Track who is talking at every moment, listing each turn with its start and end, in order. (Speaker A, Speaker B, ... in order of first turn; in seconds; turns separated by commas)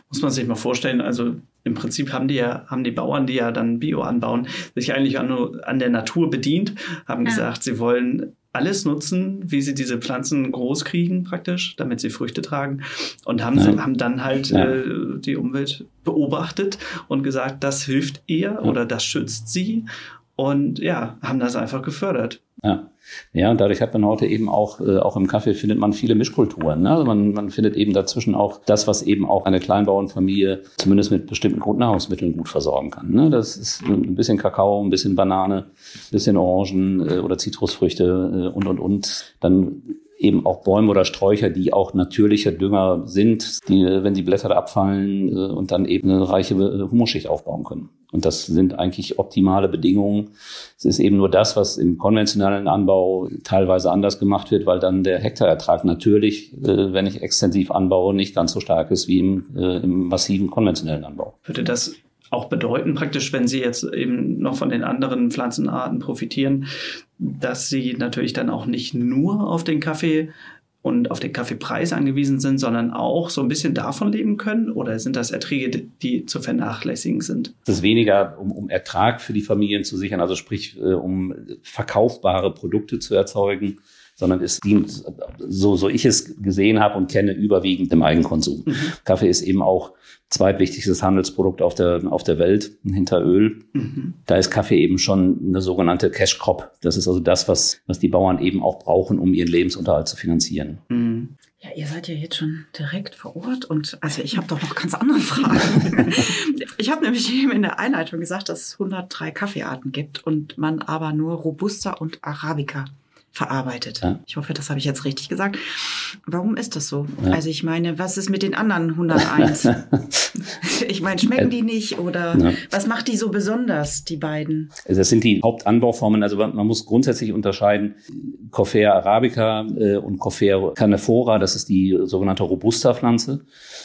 Speaker A: 0.1-22.4, Speaker B: 13.6-13.8, Speaker B: 22.6-61.3, Speaker A: 61.5-70.3, Speaker A: 70.8-77.5, Speaker B: 77.7-93.7, Speaker A: 93.8-94.1, Speaker B: 94.3-100.8, Speaker A: 100.9-101.3, Speaker C: 101.6-119.8, Speaker C: 120.6-124.7, Speaker B: 124.8-133.4